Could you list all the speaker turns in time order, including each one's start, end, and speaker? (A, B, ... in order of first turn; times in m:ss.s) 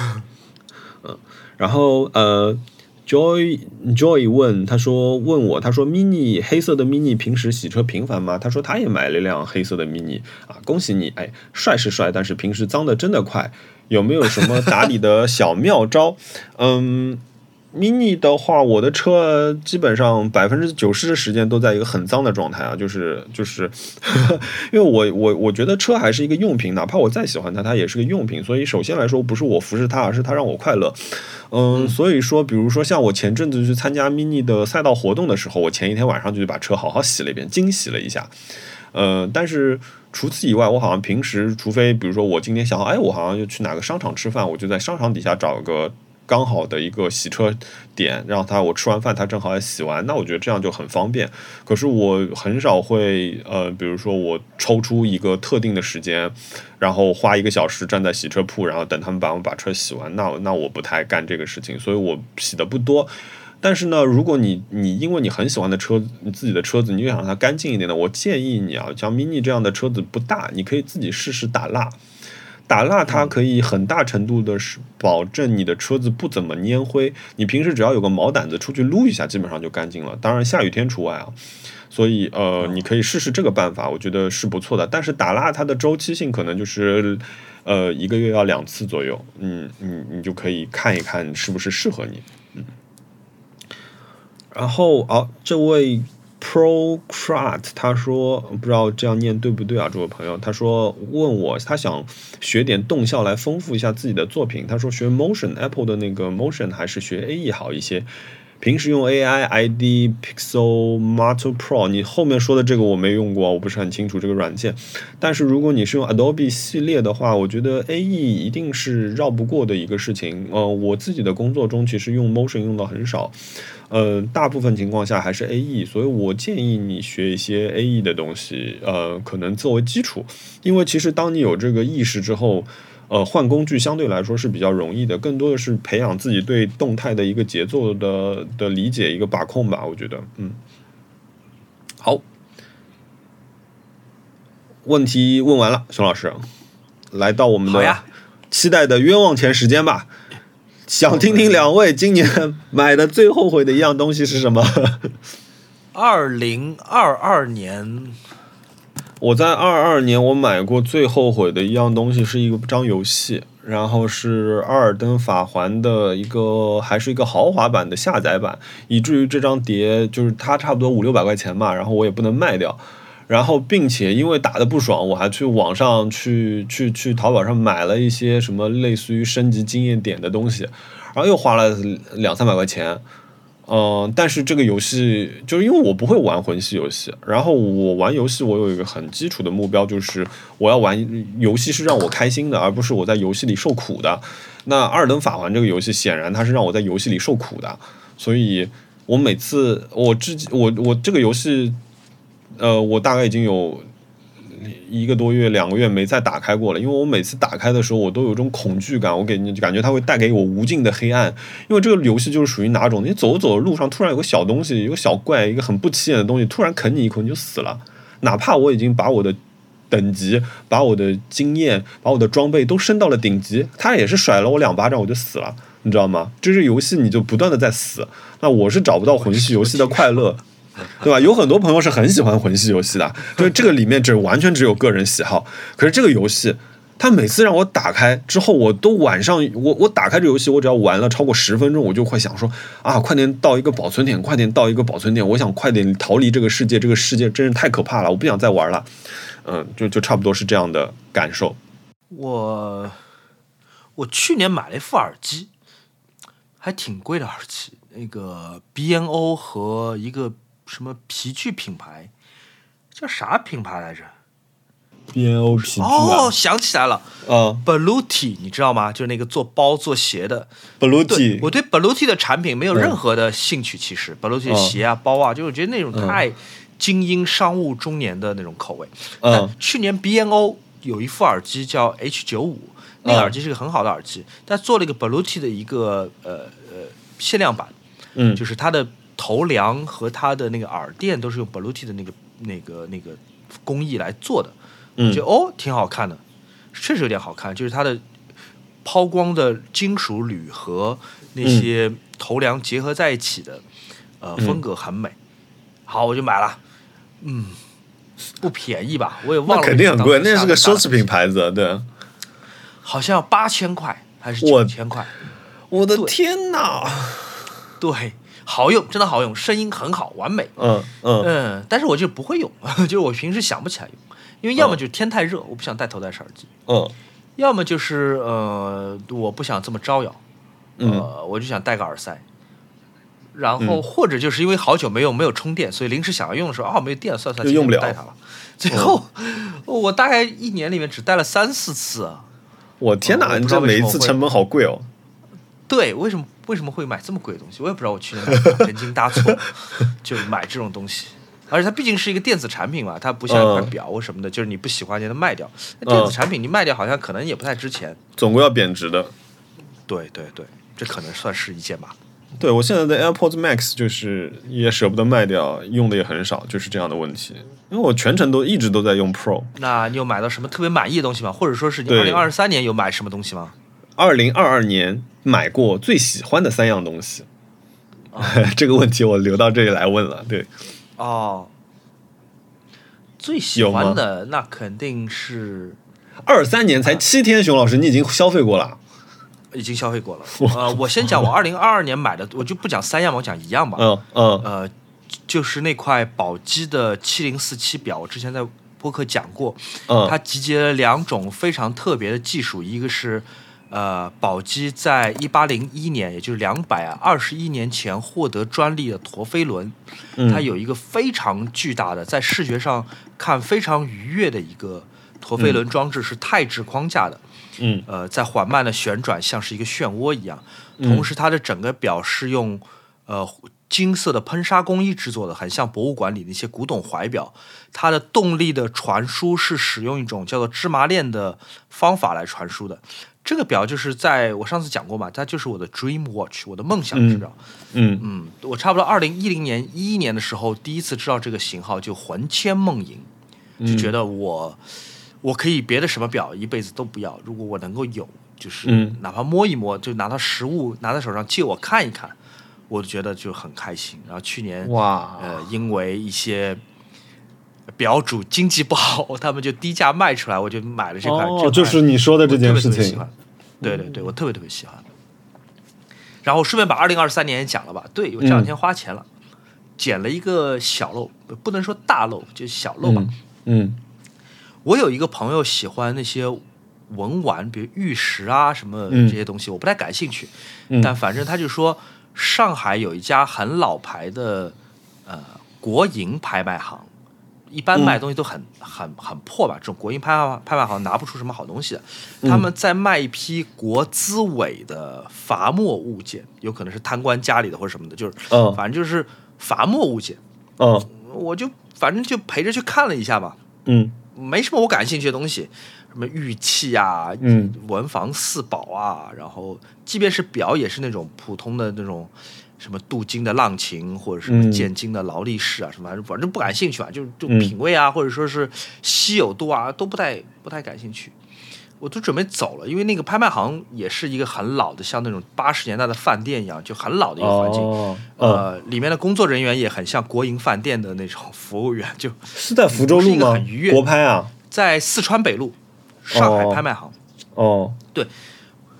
0:01.0-0:38.3 A
0:31.7-0:32.0 B
0:38.9-1:12.0 A
1:12.7-1:21.4 A
1:13.1-1:13.3 B
1:21.9-1:32.7 A
1:34.5-1:48.1 A
1:48.6-2:03.4 A
2:03.9-2:20.6 A
2:24.8-2:26.5 A
2:27.1-2:30.1 A
2:27.6-2:28.0 B
2:30.9-2:35.1 A
2:31.1-2:31.6 B
2:35.9-2:38.2 B
2:39.2-3:03.0 A
3:03.7-3:21.8 A
3:22.6-3:23.8 A
3:24.5-3:39.4 A
3:39.9-3:50.4 A
3:51.0-4:08.9 A
4:09.4-4:11.6 A
4:12.1-4:13.0 B
4:14.0-4:15.5 B
4:16.6-4:22.1 B
4:22.9-4:24.1 B
4:25.1-4:26.3 A
4:25.5-4:27.1 B
4:27.2-4:27.6 A
4:27.6-4:30.5 B
4:30.8-4:31.5 A
4:31.1-4:47.7 B
4:34.5-4:34.7 A
4:35.9-4:36.2 A
4:39.2-4:39.5 A
4:43.0-4:43.3 A
4:48.1-4:48.4 A
4:48.4-4:56.2 B
4:55.0-4:55.2 A
4:56.7-4:58.0 B
4:58.8-5:03.6 B
5:01.4-5:01.7 A
5:04.2-5:05.2 B
5:05.9-5:06.6 B
5:07.2-5:07.6 B
5:08.4-5:11.1 B
5:09.4-5:11.9 A
5:12.8-5:15.1 B
5:14.4-5:14.7 A
5:15.7-5:17.4 A
5:17.8-5:20.5 B
5:20.6-5:21.3 A
5:21.2-5:26.5 B
5:26.7-5:26.9 A
5:27.4-5:30.2 B
5:30.8-5:31.1 A
5:30.8-5:32.2 B
5:33.3-5:42.3 B
5:37.4-5:38.0 A
5:38.7-5:39.0 A
5:42.8-5:44.9 A
5:43.0-5:44.2 B
5:45.7-5:58.0 B
5:48.3-5:48.6 A
5:53.3-5:53.7 A
5:55.8-5:56.2 A
5:58.2-5:59.1 A
5:59.9-6:01.9 B
6:02.4-6:09.5 A
6:09.6-6:13.5 B
6:11.9-6:12.3 A
6:14.0-6:17.3 A
6:18.1-6:18.4 B
6:18.2-6:20.5 A
6:21.0-6:21.5 B
6:23.2-6:25.8 B
6:23.6-6:24.0 A
6:26.2-6:28.8 A
6:29.5-6:33.9 B
6:30.4-6:31.3 A
6:33.8-6:34.5 A
6:34.4-6:34.7 B
6:35.3-6:57.2 B
6:39.9-6:40.2 A
6:50.2-6:50.4 A
6:57.6-6:57.8 A
6:57.8-7:17.4 B
7:00.8-7:01.1 A
7:16.9-7:18.0 A
7:18.0-7:23.1 B
7:23.6-7:23.9 A
7:23.6-7:24.6 B
7:25.2-7:32.2 B
7:28.6-7:29.0 A
7:32.7-7:36.6 B
7:34.6-7:35.4 A
7:37.8-7:44.8 B
7:41.0-7:43.0 A
7:46.2-7:49.0 B
7:48.2-7:48.5 A
7:49.8-7:53.1 B
7:52.8-7:53.8 A
7:54.6-8:06.9 B
7:58.9-7:59.2 A
8:07.5-8:20.2 B
8:12.2-8:12.5 A
8:18.3-8:18.6 A
8:20.6-8:20.9 A
8:20.9-8:23.4 B
8:23.6-8:23.9 A
8:24.1-8:41.1 B
8:27.2-8:27.6 A
8:34.3-8:34.7 A
8:41.8-8:53.8 B
8:47.2-8:48.4 A
8:52.3-8:54.3 A
8:54.5-8:56.9 B
8:56.1-8:56.6 A
8:57.4-8:57.8 A